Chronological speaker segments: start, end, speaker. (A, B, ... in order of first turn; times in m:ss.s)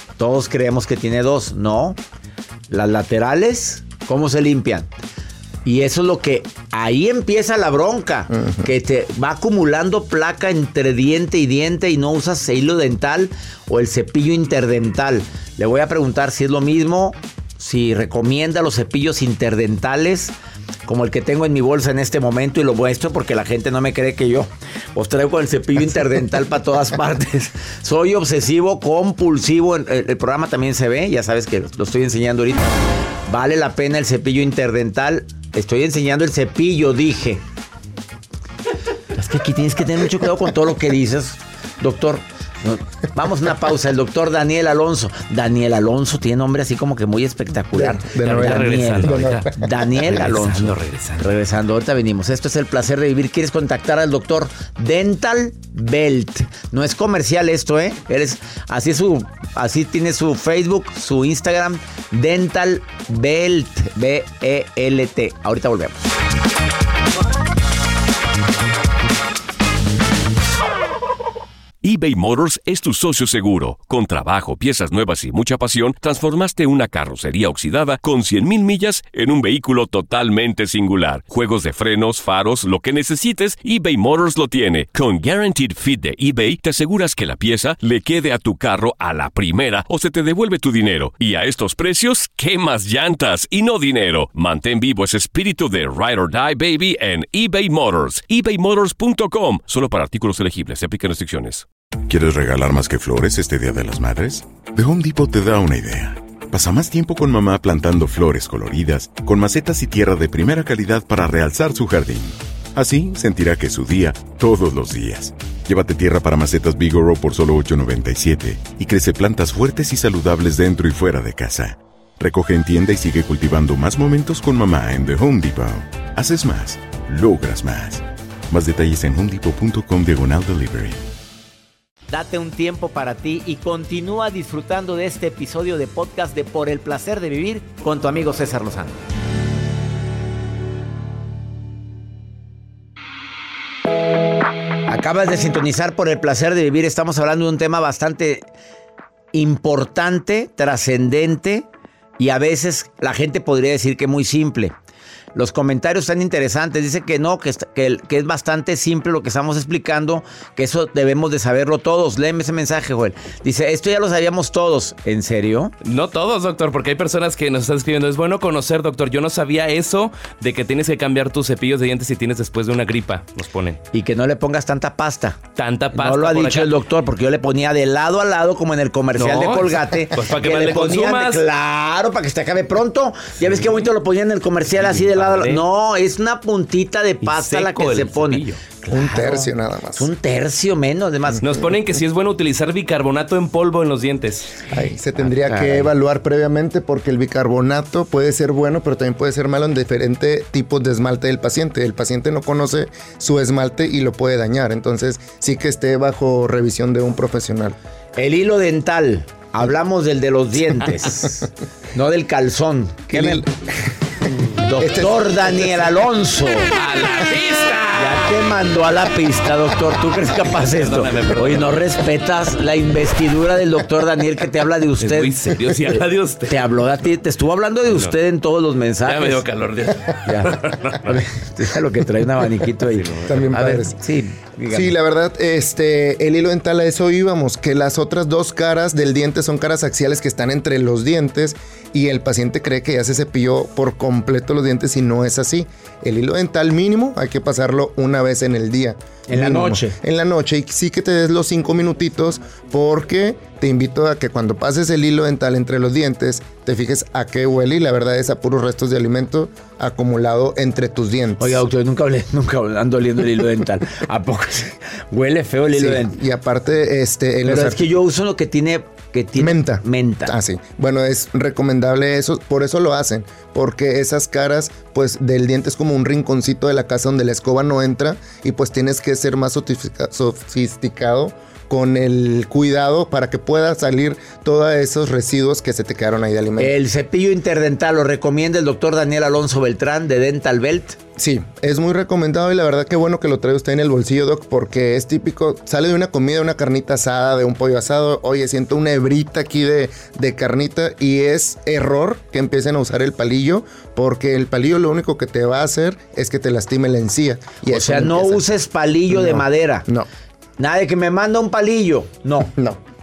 0:00.2-0:02.0 A
0:02.7-0:04.9 A
0:05.6-0:20.3 A
0:08.3-0:08.7 B
0:20.9-0:32.7 A
0:33.3-0:37.4 A
0:39.2-1:06.0 A
0:47.7-0:49.7 B
0:48.2-0:51.2 C
1:11.8-1:41.6 D
1:42.1-2:11.0 E
2:12.1-2:19.0 A
2:24.9-2:28.4 A
2:29.3-2:31.7 A
2:32.2-2:34.7 A
2:35.3-2:45.7 A
2:45.8-2:53.8 C
2:53.9-3:11.6 A
2:55.5-2:56.7 C
2:59.1-3:01.4 C
3:04.8-3:05.6 C
3:07.2-3:08.6 C
3:08.9-3:10.1 B
3:11.4-3:14.6 C
3:14.7-3:27.8 B
3:15.2-3:15.9 A
3:28.2-3:33.4 A
3:33.1-3:33.5 B
3:34.5-3:36.7 A
3:34.8-3:35.9 B
3:36.7-3:38.4 C
3:38.0-3:49.4 A
3:40.5-3:41.8 C
3:45.0-3:46.6 C
3:47.9-3:48.1 C
3:49.0-3:51.2 C
3:50.2-3:54.9 A
3:53.3-3:54.0 B
3:54.7-4:21.6 B
4:09.3-4:10.0 A
4:21.4-4:26.2 A
4:25.7-4:27.8 B
4:27.4-4:30.3 A
4:29.4-4:46.7 B
4:46.6-4:51.0 A
4:51.2-5:08.4 B
5:07.6-5:09.9 A
5:09.1-5:10.1 B
5:10.6-5:12.5 A